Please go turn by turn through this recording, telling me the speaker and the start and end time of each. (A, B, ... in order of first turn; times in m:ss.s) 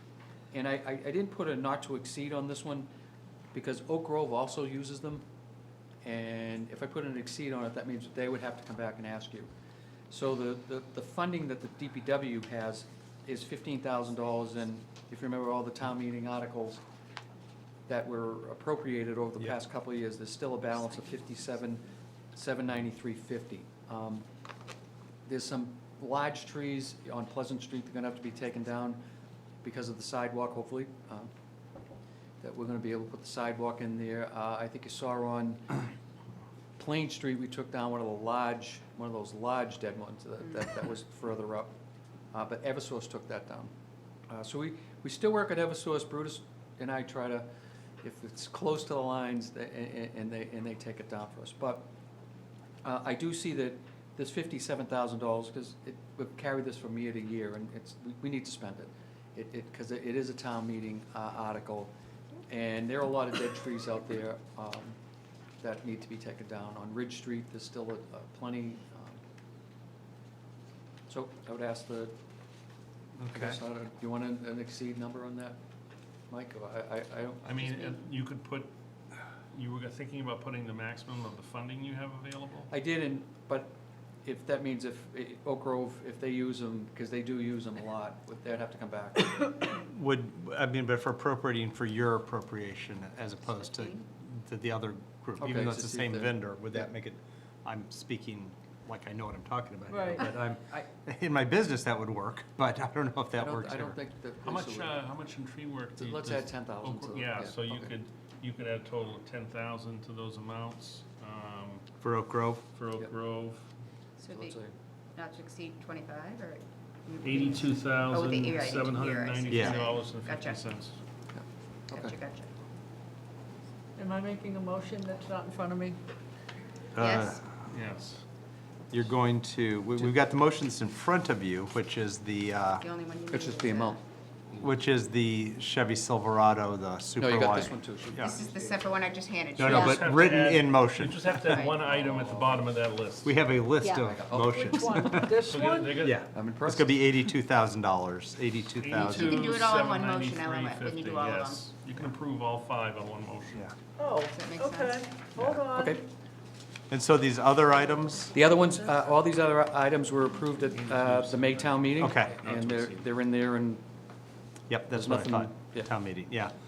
0:00.5-0:02.9 A
0:03.5-0:05.2 A
0:06.0-0:09.5 A
0:10.1-0:16.8 A
0:17.9-0:21.8 A
0:22.3-0:24.2 A
0:25.3-0:29.0 A
0:29.6-0:31.3 A
0:32.4-0:35.8 A
0:36.8-0:41.7 A
0:42.3-0:43.7 A
0:44.3-0:47.5 A
0:48.0-0:51.9 A
0:52.8-1:01.9 A
1:02.5-1:05.0 A
1:05.6-1:09.2 A
1:11.1-1:12.2 A
1:13.2-1:13.6 B
1:13.3-1:15.6 A
1:16.3-1:18.0 A
1:17.4-1:18.7 C
1:19.5-1:22.7 C
1:22.7-1:29.3 A
1:29.7-1:44.0 B
1:33.5-1:34.0 D
1:35.4-1:36.9 A
1:39.9-1:40.2 E
1:40.1-1:40.9 A
1:43.4-1:45.0 A
1:44.4-1:51.8 C
1:46.0-1:47.9 A
1:52.0-1:52.6 B
1:52.7-1:53.7 C
1:54.2-1:54.6 D
1:54.3-1:54.8 A
1:55.2-2:00.6 D
1:57.2-2:01.0 C
1:59.5-1:59.8 B
2:01.3-2:02.2 A
2:01.9-2:02.5 D
2:04.0-2:06.0 E
2:07.0-2:07.5 B
2:07.0-2:07.4 D
2:07.7-2:08.2 C
2:08.9-2:12.8 B
2:12.8-2:14.0 D
2:13.3-2:14.0 A
2:14.6-2:18.4 B
2:17.2-2:18.9 A
2:18.3-2:20.1 D
2:19.6-2:21.7 B
2:19.6-2:23.4 C
2:21.5-2:21.9 D
2:21.9-2:22.6 A
2:23.2-2:25.4 B
2:23.9-2:24.8 A
2:24.5-2:26.0 E
2:25.5-2:26.3 C
2:26.0-2:29.5 B
2:26.2-2:27.1 A
2:28.8-2:33.7 C
2:29.3-2:31.6 D
2:34.0-2:36.0 E
2:34.3-2:35.0 D
2:35.4-2:35.6 B
2:35.8-2:36.0 A
2:36.9-2:38.3 B
2:38.3-2:43.8 A
2:40.8-2:43.1 C
2:42.0-2:42.4 B
2:44.7-2:46.5 B
2:44.9-2:45.9 A